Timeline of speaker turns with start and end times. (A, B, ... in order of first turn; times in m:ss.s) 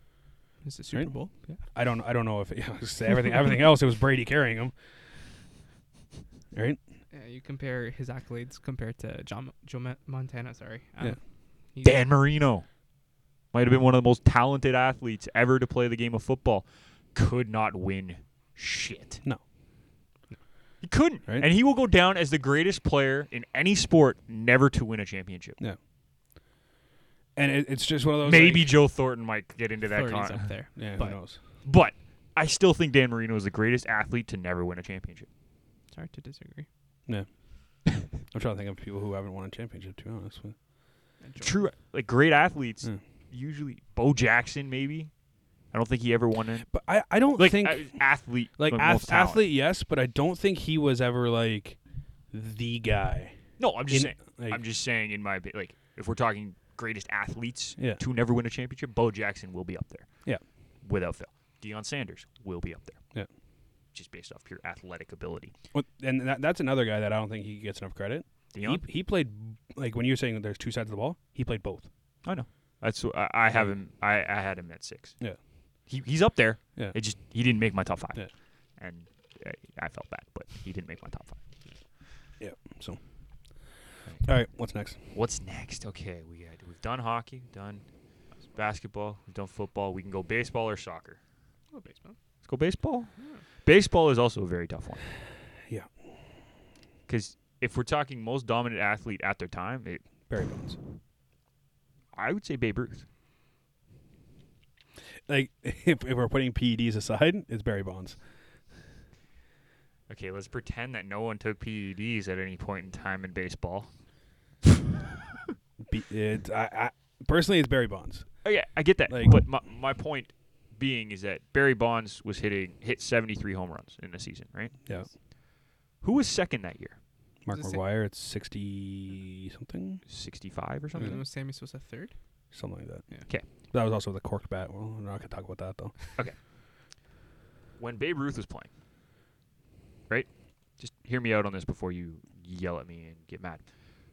0:00.6-0:01.6 A
0:01.7-0:04.7 B
0:06.5-0:06.8 B
0:07.1-0:11.2 A
0:11.7-0:12.1 A
0:11.8-0:12.6 C
0:13.5-0:19.2 C
0:20.8-0:25.6 C
0:27.4-0:28.7 B
0:28.2-0:30.5 C
0:29.8-0:31.2 A
0:30.8-0:31.4 B
0:31.6-0:35.3 C
0:35.9-0:36.7 A
0:38.3-0:40.6 B
0:41.2-0:41.6 A
0:41.4-0:45.1 C
0:45.7-0:46.7 C
0:46.7-0:48.0 B
0:47.4-0:49.4 C
0:48.6-0:51.8 B
0:52.3-0:54.6 B
0:53.6-1:00.1 C
1:00.8-1:03.0 C
1:03.9-1:05.5 C
1:05.7-1:11.9 B
1:08.5-1:08.8 C
1:12.2-1:15.2 C
1:15.9-1:21.4 C
1:22.4-1:23.0 B
1:24.2-1:25.0 B
1:25.1-1:27.8 C
1:28.5-1:31.2 C
1:31.7-1:32.2 A
1:32.4-1:35.0 C
1:33.2-1:33.4 A
1:37.1-1:40.0 C
1:40.3-1:40.8 B
1:42.1-1:43.0 C
1:45.3-1:48.2 B
1:50.1-1:53.9 C
1:55.8-1:58.4 B
1:58.4-2:04.8 C
1:59.1-1:59.4 B
2:04.8-2:05.1 B
2:06.0-2:07.0 C
2:07.4-2:10.0 B
2:07.5-2:07.8 A
2:10.0-2:11.2 C
2:10.9-2:12.1 A
2:11.0-2:11.2 B
2:12.5-2:16.0 B
2:17.8-2:18.7 C
2:20.1-2:23.6 C